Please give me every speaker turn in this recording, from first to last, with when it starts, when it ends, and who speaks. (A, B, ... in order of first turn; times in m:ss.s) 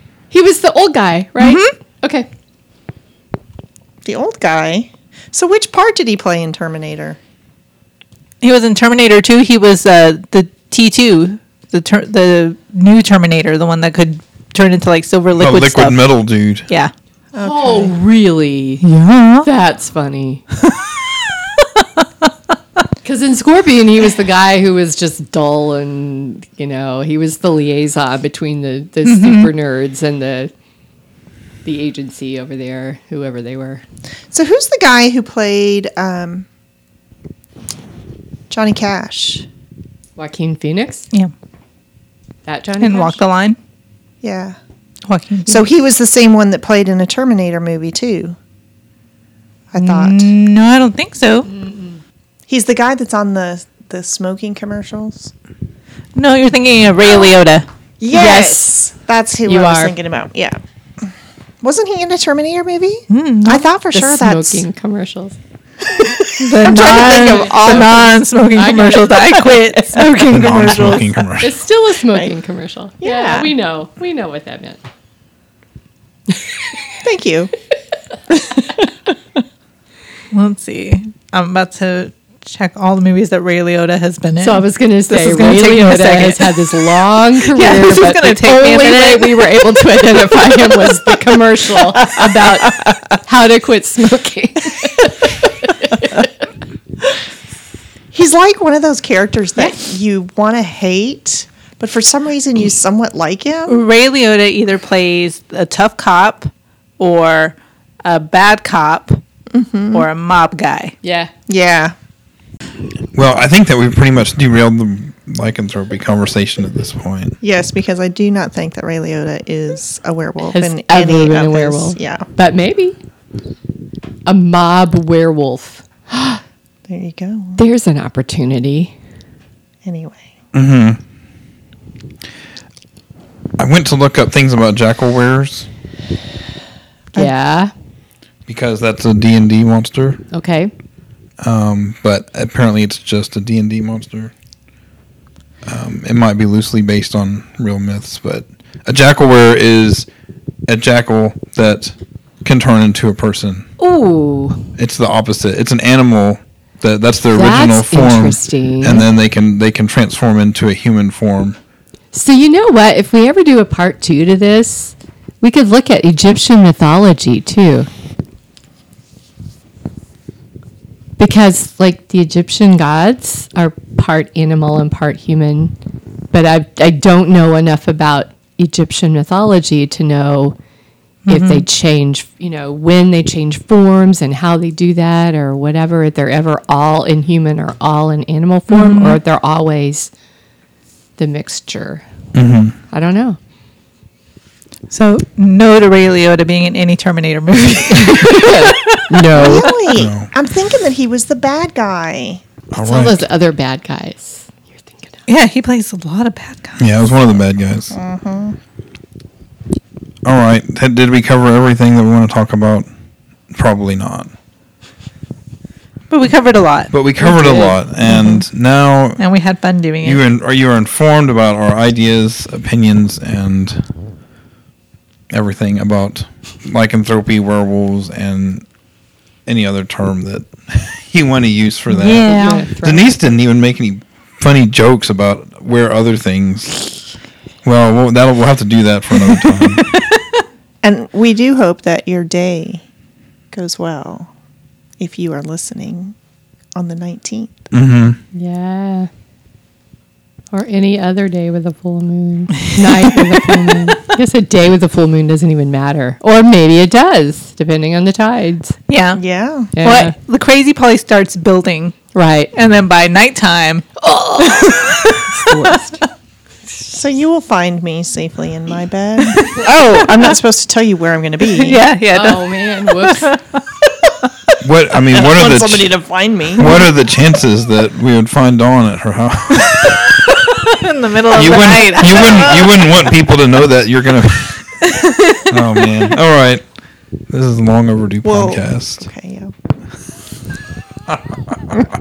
0:00.3-0:02.3 A
0:01.4-0:01.7 B
0:04.0-0:07.2 C
0:08.4-0:16.0 B
0:15.4-0:16.7 D
0:17.4-0:17.9 C
0:17.4-0:18.9 A
0:18.8-0:19.5 B
0:19.4-0:20.4 A
0:21.2-0:22.3 B
0:23.0-0:30.5 A
0:29.0-0:29.5 B
0:31.6-0:33.8 A
0:34.3-0:36.5 C
0:38.5-0:39.5 C
0:40.2-0:41.1 A
0:42.4-0:43.2 A
0:42.8-0:43.6 B
0:44.2-0:44.6 C
0:45.1-0:45.7 B
0:45.5-0:48.4 C
0:49.7-0:50.3 C
0:49.8-0:51.5 B
0:51.6-0:52.0 A
0:52.5-0:55.3 C
0:56.2-0:57.6 B
0:58.0-1:01.1 C
0:58.1-0:58.9 A
0:59.5-1:00.0 A
1:01.6-1:04.6 C
1:03.1-1:03.7 B
1:03.9-1:05.4 A
1:05.9-1:08.2 C
1:06.4-1:11.2 B
1:08.5-1:09.2 A
1:09.4-1:11.0 C
1:10.3-1:11.5 D
1:11.4-1:14.8 A
1:12.1-1:12.4 C
1:13.0-1:13.5 C
1:17.0-1:17.5 C
1:18.3-1:19.0 C
1:20.3-1:26.6 B
1:24.4-1:36.3 A
1:27.5-1:29.6 B
1:32.0-1:32.9 C
1:38.1-1:43.8 C
1:43.7-1:49.2 B
1:49.5-1:50.1 C
1:49.9-1:51.0 B
1:51.0-1:51.3 A
1:51.5-1:52.0 C
1:53.2-1:57.4 D
1:57.4-2:02.3 C
2:00.4-2:03.0 A
2:04.3-2:06.4 A
2:06.9-2:07.6 C
2:07.6-2:08.9 A
2:09.8-2:10.2 C
2:10.5-2:11.0 D
2:13.6-2:15.7 D
2:17.2-2:17.7 A
2:18.5-2:20.2 D
2:20.3-2:20.7 A
2:21.4-2:24.3 D
2:25.6-2:30.1 D
2:30.7-2:33.7 D
2:33.8-2:34.7 A
2:34.8-2:41.6 D
2:37.3-2:39.1 A
2:42.1-2:47.9 A
2:51.2-2:55.8 A
2:56.3-3:00.6 A
3:01.3-3:01.7 B
3:01.3-3:10.1 A
3:08.7-3:09.2 B
3:11.2-3:12.0 A
3:12.3-3:12.8 D
3:12.9-3:13.4 A
3:14.9-3:19.0 B
3:18.0-3:19.8 A
3:19.3-3:22.4 C
3:19.9-3:20.3 D
3:22.7-3:23.3 D
3:22.8-3:25.1 A
3:25.3-3:26.8 B
3:26.8-3:28.0 D
3:27.9-3:28.6 C
3:30.2-3:32.9 D
3:33.5-3:34.3 D
3:36.1-3:37.8 B
3:36.9-3:39.2 D
3:39.2-3:40.2 B
3:40.0-3:43.9 D
3:45.3-3:48.6 D
3:49.5-3:56.8 D
3:51.9-3:52.7 B
3:52.2-3:53.1 A
3:57.6-3:59.8 D
3:59.2-4:00.4 B
4:00.8-4:02.9 C
4:03.5-4:04.3 C
4:05.0-4:06.2 C
4:06.8-4:07.7 C
4:07.7-4:08.2 D
4:08.3-4:09.1 A
4:10.5-4:18.8 A
4:12.8-4:14.0 B
4:18.9-4:19.2 B
4:19.2-4:19.7 C
4:19.8-4:20.2 A
4:19.8-4:22.0 B
4:22.1-4:22.5 A
4:22.5-4:25.6 B
4:24.0-4:26.0 A
4:26.9-4:31.8 C
4:29.2-4:30.4 B
4:31.4-4:33.6 B
4:32.1-4:33.4 A
4:34.6-4:35.9 D
4:35.1-4:36.9 C
4:36.6-4:40.3 D
4:40.2-4:43.0 B
4:41.3-4:46.7 D
4:44.8-4:45.5 B
4:47.3-4:49.1 D
4:48.2-4:49.5 C
4:51.1-4:51.8 D